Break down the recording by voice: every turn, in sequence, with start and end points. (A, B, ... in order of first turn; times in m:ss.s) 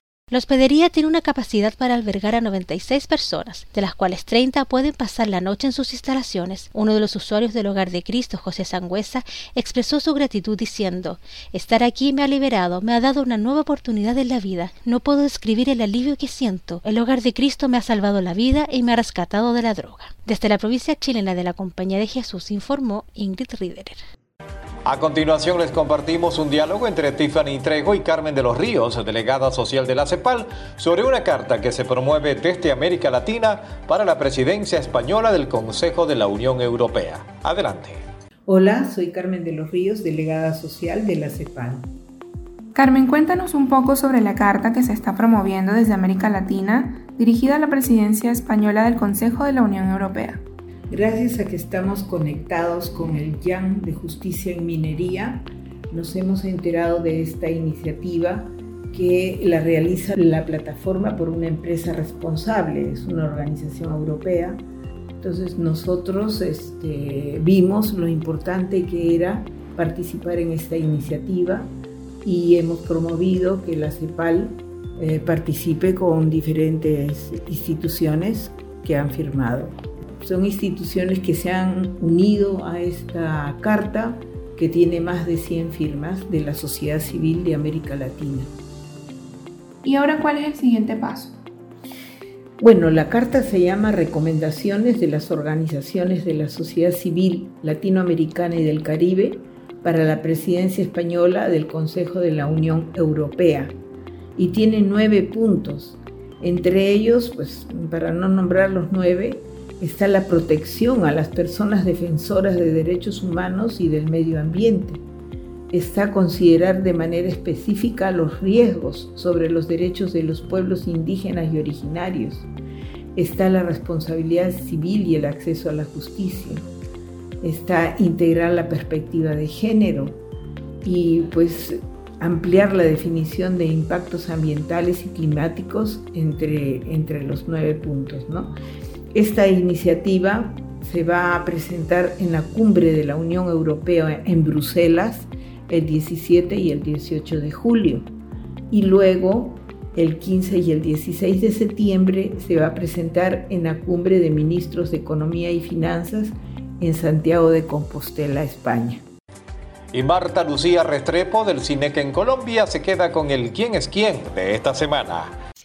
0:00.3-0:24.0 A
0:24.8-0:38.0 B
0:38.5-0:41.9 C
0:42.8-0:50.4 D
0:50.9-1:04.6 C
1:05.2-1:11.7 C
1:12.2-1:28.5 C
1:29.8-1:31.3 D
1:32.6-1:43.8 C
1:44.4-1:55.0 C
1:55.7-2:02.5 C
2:03.2-2:06.7 C
2:07.4-2:10.2 C
2:10.8-2:18.5 C
2:19.1-2:28.1 C
2:28.7-2:39.0 C
2:39.9-2:45.4 B